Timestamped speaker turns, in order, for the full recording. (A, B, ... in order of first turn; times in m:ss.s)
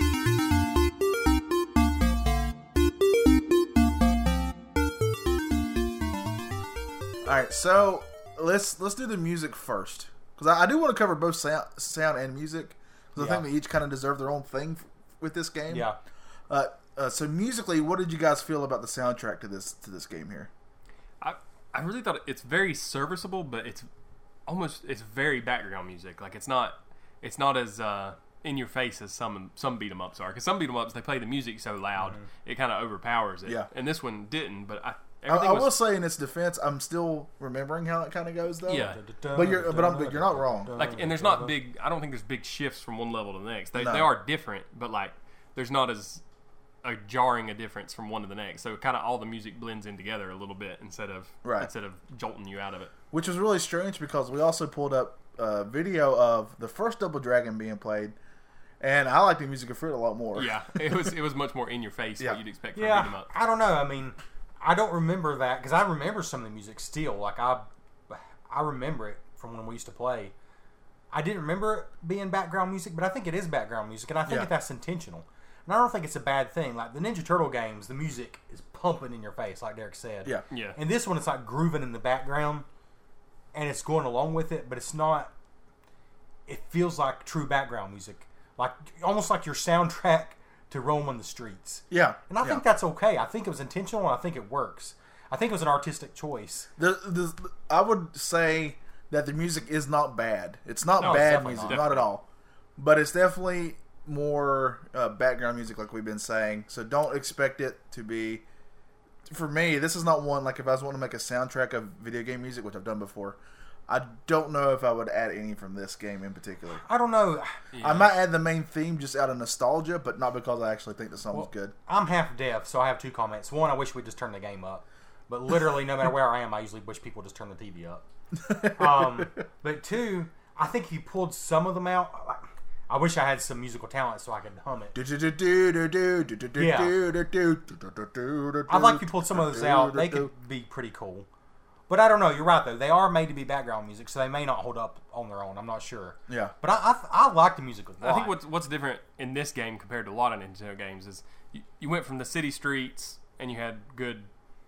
0:07.2-0:15.9 A
0:13.2-0:13.5 B
0:15.7-0:16.0 B
0:16.5-0:20.5 A
0:21.2-0:23.9 C
0:24.5-0:35.8 C
0:35.3-0:40.7 A
0:38.7-0:39.0 C
0:38.7-0:41.5 B
0:40.8-0:46.2 C
0:43.8-0:44.1 A
0:46.8-0:52.9 C
0:51.4-0:51.7 A
0:53.1-0:58.2 A
0:58.8-1:01.0 A
1:00.4-1:03.3 C
1:02.8-1:10.3 B
1:11.1-1:22.7 B
1:14.3-1:14.5 A
1:20.5-1:20.8 C
1:23.5-1:25.3 B
1:26.5-1:36.7 B
1:31.9-1:32.6 A
1:36.8-1:42.2 A
1:41.0-1:41.8 B
1:41.1-1:42.1 C
1:42.8-1:48.4 A
1:49.3-1:56.8 A
1:56.8-1:57.5 B
1:57.7-1:58.1 C
1:57.8-2:01.7 A
2:01.3-2:08.0 B
2:08.4-2:09.3 A
2:08.6-2:15.0 B
2:14.9-2:20.3 A
2:16.6-2:16.9 B
2:18.7-2:21.3 B
2:21.9-2:28.4 B
2:26.3-2:26.5 A
2:28.0-2:34.3 C